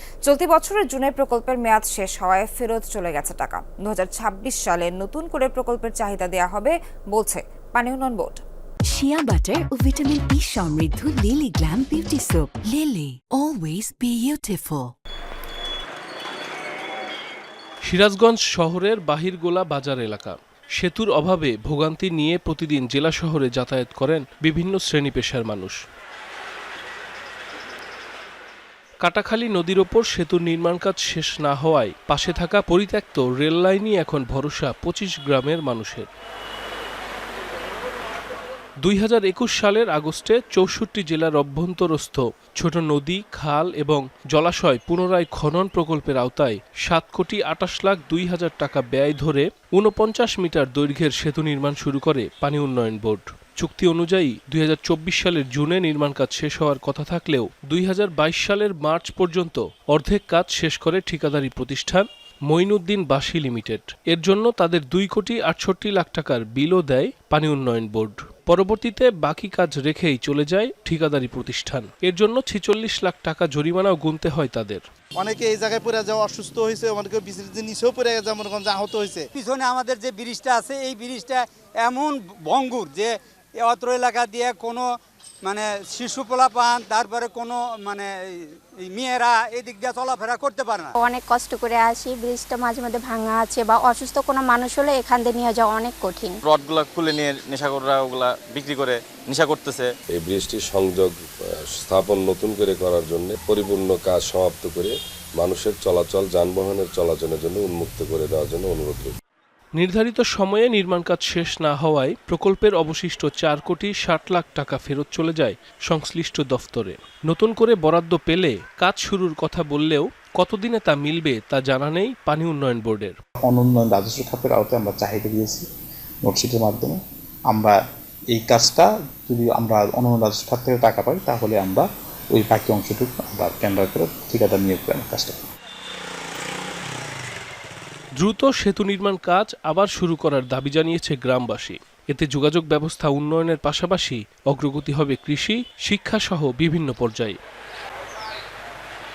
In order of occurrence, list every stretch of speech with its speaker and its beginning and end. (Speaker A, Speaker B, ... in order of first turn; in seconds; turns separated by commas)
Speaker A: 0.2-8.4, Speaker B: 9.0-14.8, Speaker C: 17.8-25.8, Speaker C: 29.0-36.1, Speaker C: 38.8-74.8, Speaker D: 75.2-79.3, Speaker E: 79.3-84.8, Speaker E: 85.4-90.9, Speaker F: 91.0-96.3, Speaker G: 96.4-99.9, Speaker H: 100.1-101.1, Speaker H: 101.8-109.1, Speaker C: 109.8-123.2, Speaker I: 123.4-125.6, Speaker I: 126.2-127.0, Speaker I: 127.5-127.8, Speaker I: 128.3-135.4, Speaker C: 138.2-147.4